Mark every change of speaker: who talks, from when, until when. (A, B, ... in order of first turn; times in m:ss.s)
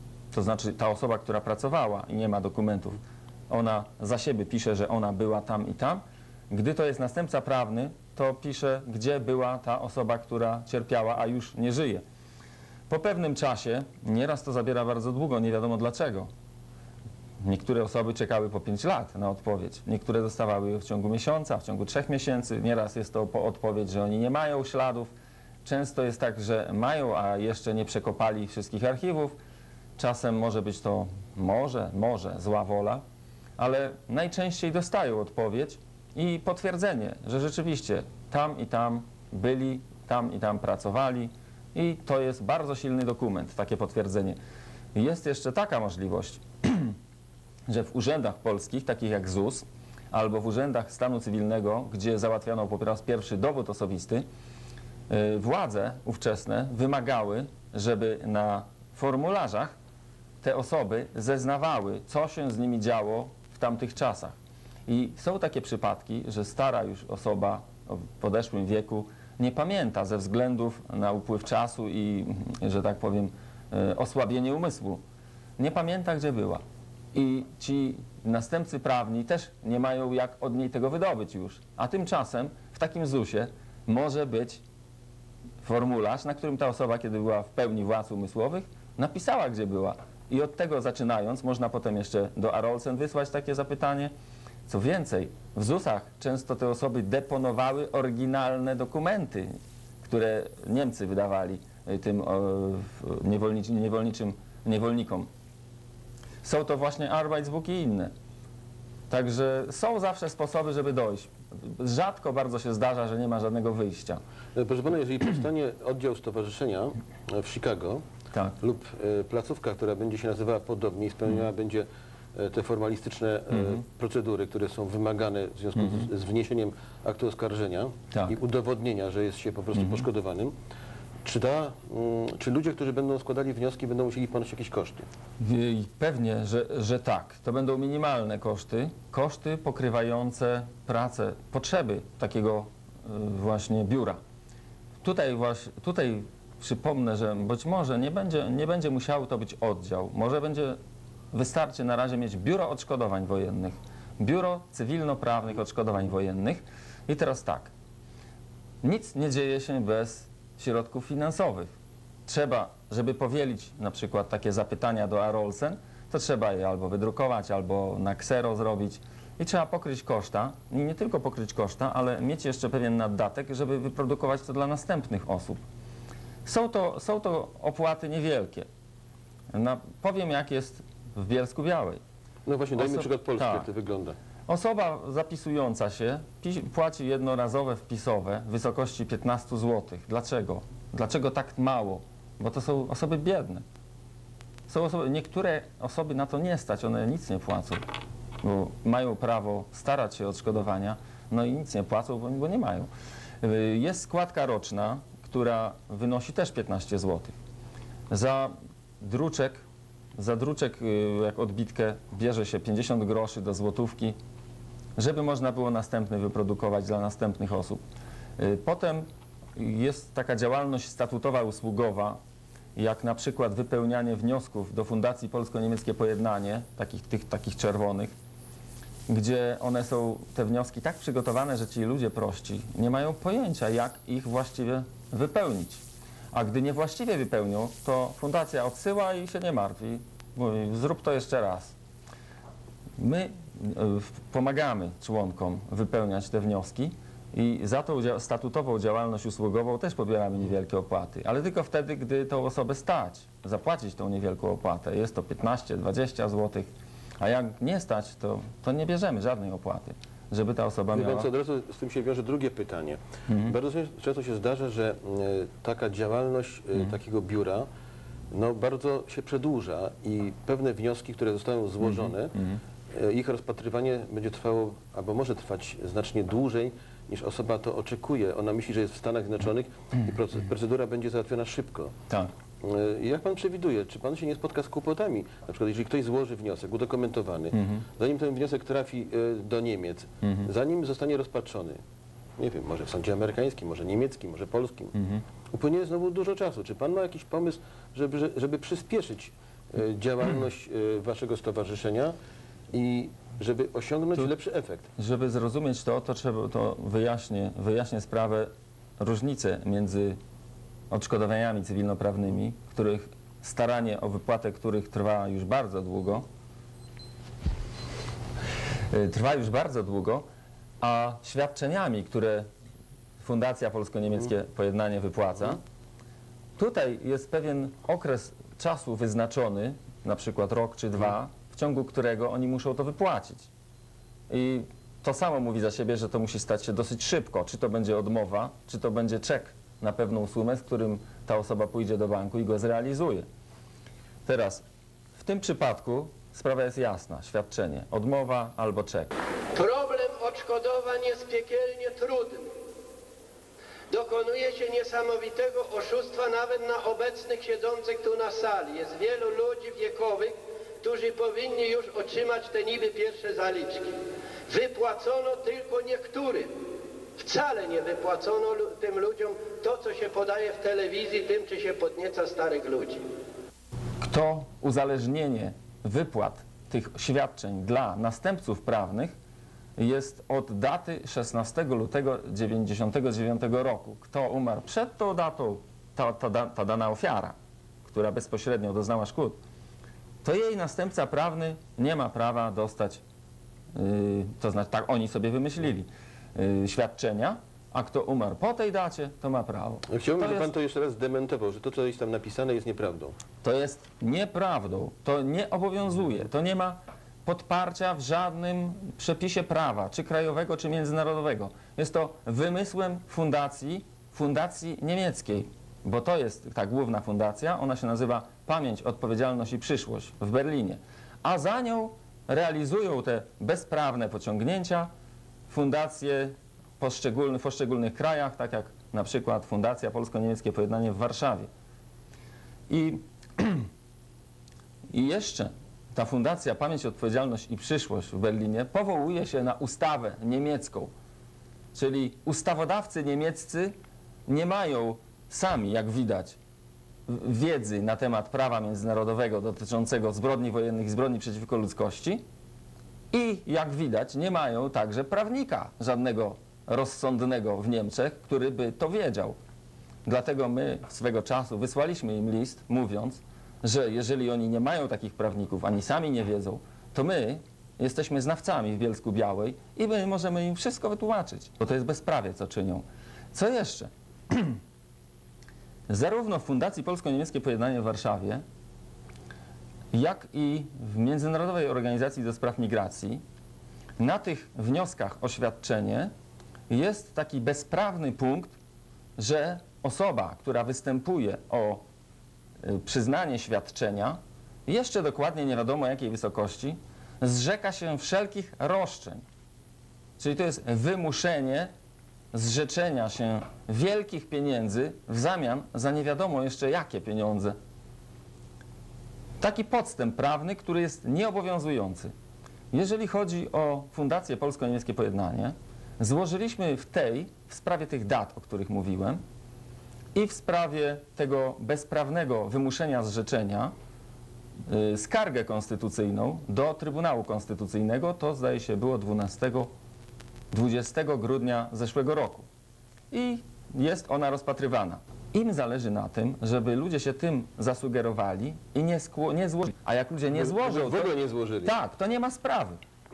0:00.3-0:12.0 A
0:12.9-0:16.3 A
0:17.4-0:25.1 A
0:25.6-0:29.3 A
0:30.0-0:33.0 A
0:33.6-0:44.4 A
0:44.9-0:47.0 A
0:47.7-0:54.2 A
0:55.1-0:59.7 A
1:00.4-1:15.0 A
1:15.6-1:16.6 A
1:17.1-1:24.6 A
1:25.6-1:34.1 A
1:34.7-1:39.5 A
1:40.0-1:45.3 A
1:46.4-1:48.1 A
1:49.1-1:54.2 A
1:54.5-1:58.0 B
1:58.6-2:10.5 B
2:05.8-2:06.1 A
2:09.7-2:10.0 A
2:11.2-2:15.0 B
2:15.4-2:24.2 A
2:25.0-2:30.8 A
2:31.3-2:37.7 A
2:38.8-2:41.7 A
2:42.2-2:55.6 A
2:56.4-2:58.7 A
2:59.5-3:02.0 A
3:02.4-3:04.2 B
3:02.8-3:03.7 A
3:04.5-3:13.6 A
3:14.7-3:17.8 A
3:18.4-3:22.9 A
3:23.4-3:27.4 A
3:28.1-3:29.6 A
3:30.2-3:34.2 A
3:35.0-3:37.8 A
3:38.4-3:39.0 A
3:39.6-3:42.2 A
3:42.8-3:48.1 A
3:49.1-4:01.8 A
4:03.0-4:16.7 A
4:17.2-4:21.3 A
4:20.9-4:27.7 B
4:23.3-4:23.5 A
4:28.3-4:32.4 B
4:31.8-4:32.6 A
4:32.9-4:41.9 B
4:42.6-4:51.8 B
4:47.5-4:47.8 A
4:50.2-4:50.5 A
4:52.4-4:55.0 B
4:55.0-4:55.2 A
4:55.5-5:02.1 B
5:02.7-5:04.9 B
5:05.0-5:10.2 A
5:10.9-5:16.2 A
5:18.9-5:20.2 A
5:20.8-5:22.5 A
5:23.2-5:25.6 A
5:26.6-5:33.5 A
5:34.3-5:43.2 A
5:44.2-5:44.6 A
5:45.2-5:49.1 A
5:49.5-5:52.5 C
5:53.9-6:03.9 C
6:04.5-6:06.5 C
6:07.2-6:13.0 C
6:14.0-6:19.1 A
6:19.8-6:29.4 A
6:30.2-6:33.0 A
6:33.7-6:40.5 A
6:39.9-6:43.1 B
6:43.4-7:04.9 A
7:05.5-7:11.5 A
7:12.7-7:13.7 A
7:14.9-7:20.9 A
7:21.7-7:23.7 A
7:24.2-7:26.4 A
7:27.1-7:32.2 A
7:33.1-7:39.4 A
7:40.0-7:54.6 A
7:55.9-7:58.4 A
7:59.9-8:03.2 A
8:04.0-8:06.1 A
8:06.7-8:08.5 A
8:09.2-8:11.8 A
8:12.6-8:19.2 A
8:20.2-8:21.7 A
8:22.3-8:27.5 A
8:29.4-8:32.1 A
8:32.7-8:39.2 A
8:40.1-8:43.7 A
8:44.7-8:49.7 A
8:50.5-8:52.5 A
8:53.1-9:01.1 A
9:00.3-9:01.7 B
9:01.6-9:02.8 A